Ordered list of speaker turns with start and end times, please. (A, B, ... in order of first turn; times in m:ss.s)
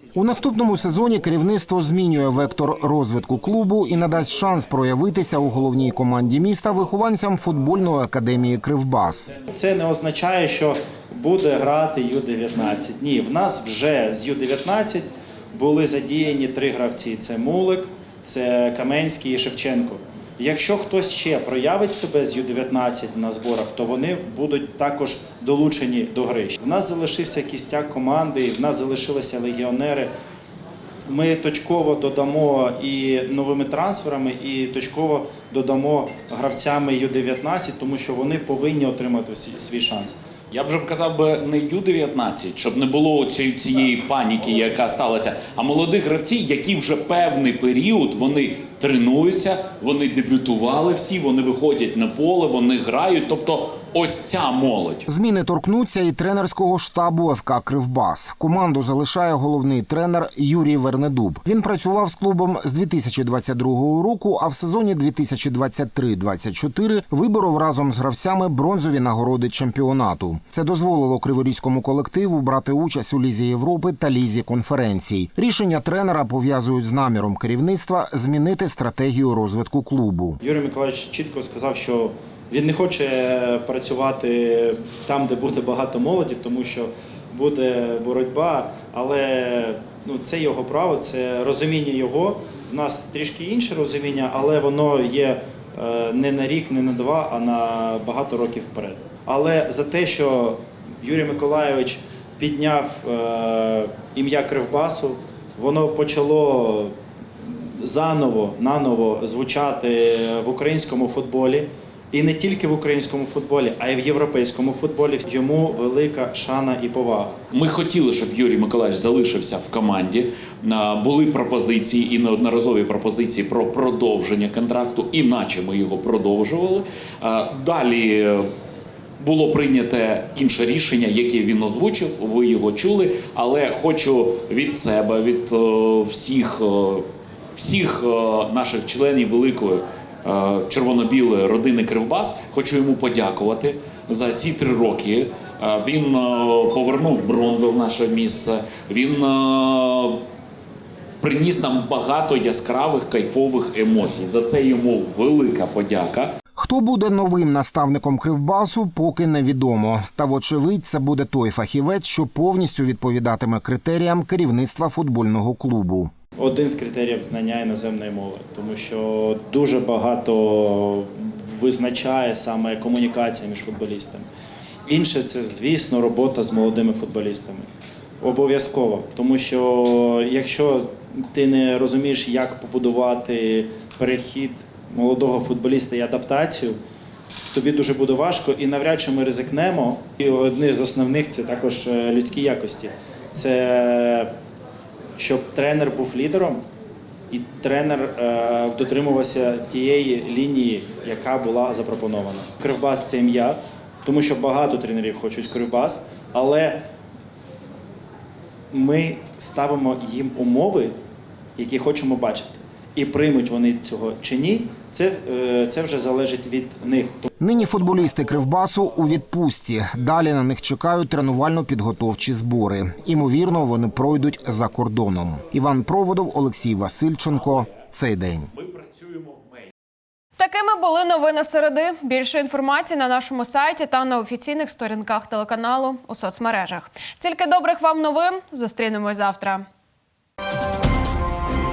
0:00.2-0:09.3 A
0:09.4-0:30.1 B
0:31.1-0:40.2 B
0:40.5-0:55.1 C
0:55.1-1:20.4 A
1:20.4-1:46.9 B
1:47.4-1:57.4 B
1:57.5-2:08.5 C
2:09.2-2:30.2 C
2:31.2-2:36.3 C
2:36.6-2:46.1 A
2:46.4-2:54.3 B
2:54.9-2:57.7 B
2:58.2-3:06.8 B
3:07.5-3:14.3 B
3:15.2-3:16.6 B
3:17.3-3:26.8 B
3:28.7-3:31.0 B
3:31.6-3:37.3 B
3:37.4-3:48.5 A
3:50.4-3:59.7 D